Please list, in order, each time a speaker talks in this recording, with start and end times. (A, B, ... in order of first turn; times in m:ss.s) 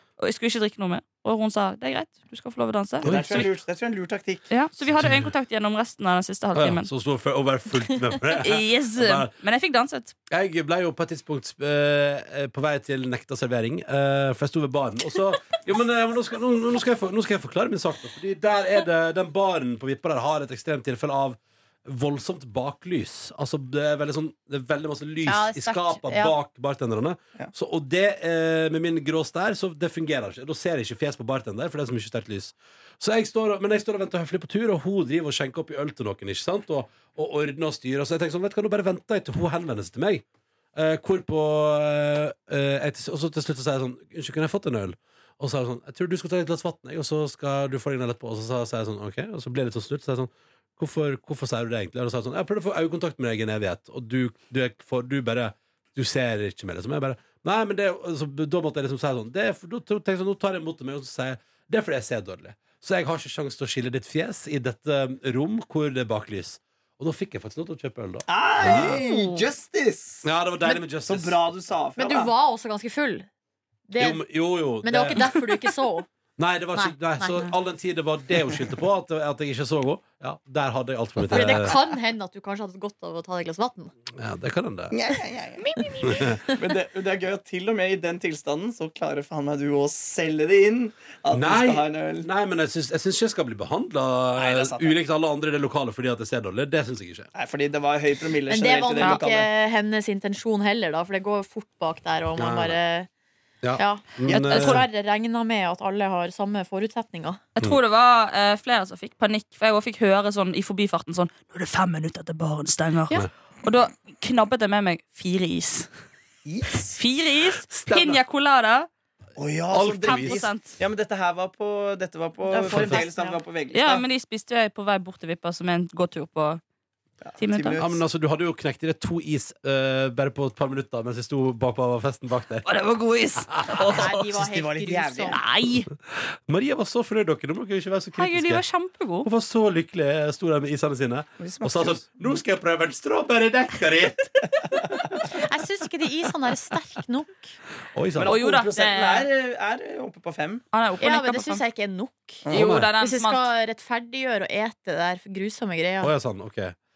0:00.2-0:03.5 A
0:03.0-0:03.5 B
0:03.0-0:04.5 C
0:04.5-0:06.9 A
0:04.9-0:05.3 B
0:06.5-0:09.3 B
0:08.4-0:10.1 A
0:10.3-0:40.2 B
0:25.2-0:26.3 D
0:40.7-1:09.0 B
1:08.3-1:10.3 C
1:08.6-1:09.4 A
1:10.2-1:11.4 B
1:11.0-1:12.3 C
1:12.0-1:13.3 D
1:13.9-1:14.2 D
1:14.0-1:15.4 B
1:14.8-1:16.1 D
1:16.4-1:21.8 B
1:16.7-1:17.5 D
1:21.3-1:23.9 D
1:24.1-1:25.0 B
1:24.9-1:32.3 C
1:25.6-1:26.2 A
1:25.8-1:26.6 D
1:26.0-1:26.4 B
1:31.3-1:37.3 B
1:34.4-1:34.9 C
1:37.3-1:39.5 C
1:38.5-1:43.1 D
1:42.4-1:42.8 B
1:43.6-1:44.8 B
1:43.8-1:47.4 D
1:44.4-1:44.8 A
1:47.6-1:55.9 A
1:56.4-1:57.0 C
1:56.9-1:58.9 A
1:57.7-1:58.2 B
1:59.4-2:04.0 C
1:59.7-2:00.4 B
2:00.0-2:00.8 A
2:02.5-2:03.4 D
2:02.7-2:03.0 B
2:03.7-2:06.6 A
2:07.2-2:08.0 C
2:07.4-2:07.8 A
2:07.8-2:12.7 B
2:12.6-2:14.1 A
2:13.4-2:14.0 B
2:13.8-2:15.4 C
2:13.9-2:15.4 D
2:15.3-2:15.9 A
2:15.9-2:18.6 B
2:18.2-2:19.3 A
2:19.2-2:25.2 B
2:21.4-2:22.4 C
2:25.3-2:27.5 D
2:27.9-2:28.4 B
2:28.2-2:30.6 C
2:28.2-2:29.3 A
2:30.7-2:31.6 A
2:31.0-2:32.4 D
2:32.5-2:33.5 A
2:32.5-2:32.9 B
2:33.0-2:36.1 D
2:36.0-2:36.8 B